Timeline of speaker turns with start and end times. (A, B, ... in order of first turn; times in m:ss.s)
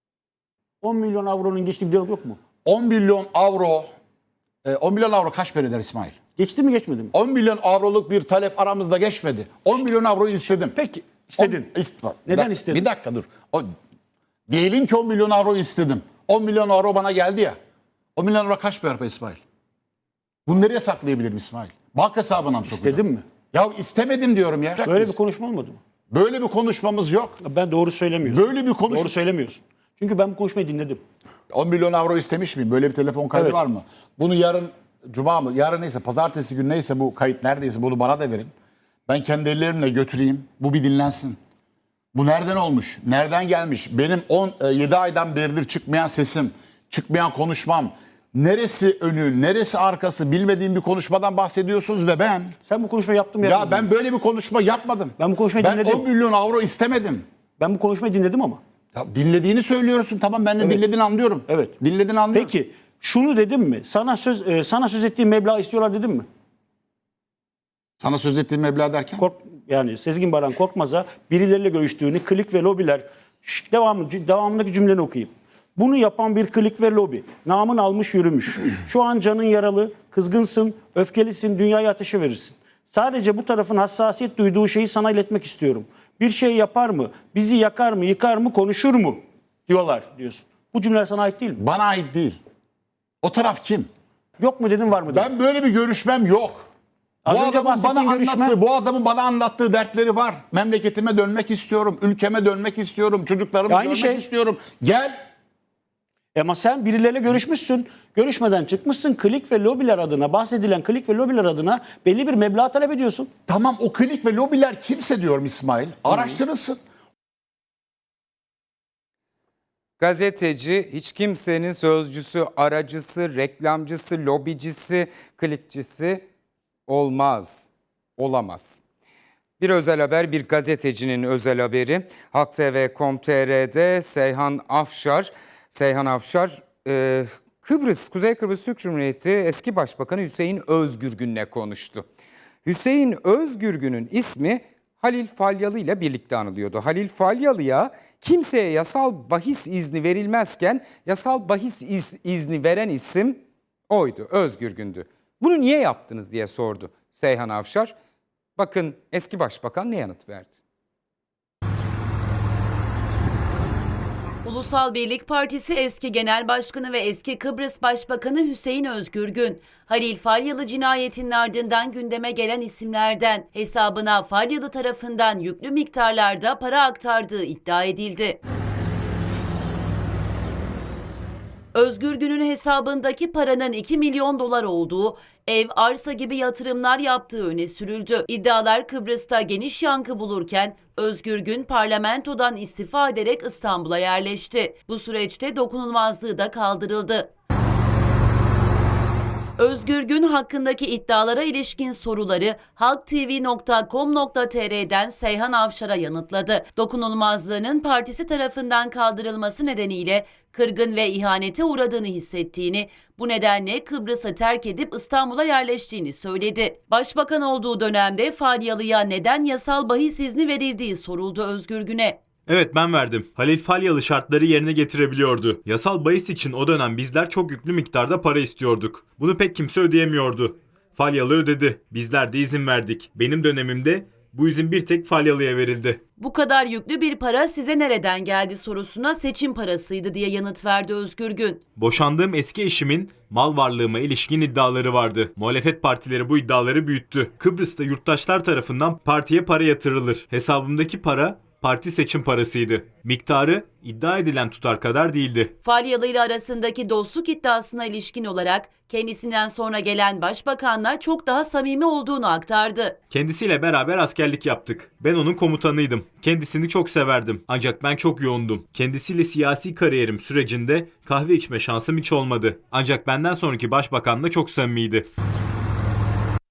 0:00.8-0:02.4 A
0:02.6-0:03.9 B
0:04.6-0:06.1 B
0:06.4-0:07.1 A
0:07.1-0:10.8 B
0:10.4-0:11.7 A
0:11.4-0:13.7 B
0:12.2-0:12.9 A
0:14.5-0:17.6 B
0:18.2-0:19.4 B
0:20.4-0:25.2 B
0:22.7-0:23.2 A
0:24.8-0:25.8 A
0:26.1-0:27.4 B
0:27.4-0:31.0 A
0:28.2-0:29.1 B
0:31.5-0:38.5 B
0:33.3-0:33.6 A
0:39.1-0:41.4 B
0:42.1-0:52.6 B
0:52.6-0:53.9 A
0:53.4-0:57.2 B
0:55.2-0:56.1 A
0:57.6-0:58.6 A
0:58.9-1:02.5 B
1:00.6-1:00.8 A
1:01.5-1:01.7 A
1:02.3-1:06.2 A
1:08.0-1:09.2 B
1:09.2-1:31.6 A
1:31.6-1:32.4 B
1:33.2-1:33.9 B
1:34.4-1:35.3 A
1:35.1-1:36.7 B
1:37.2-1:38.6 A
1:37.3-1:45.2 B
1:43.7-1:44.3 A
1:46.3-1:53.3 A
1:53.5-1:56.8 B
1:56.1-1:56.4 A
2:00.0-2:06.2 C
2:06.9-2:08.8 C
2:09.6-2:22.0 C
2:22.6-2:37.9 C
2:38.6-2:40.6 C
2:44.4-2:58.4 D
3:01.7-3:17.3 D
3:19.6-3:42.2 D
3:42.5-3:56.0 E
3:56.2-4:01.6 D
4:01.8-4:15.5 E
4:15.6-4:23.0 D
4:23.1-4:35.1 E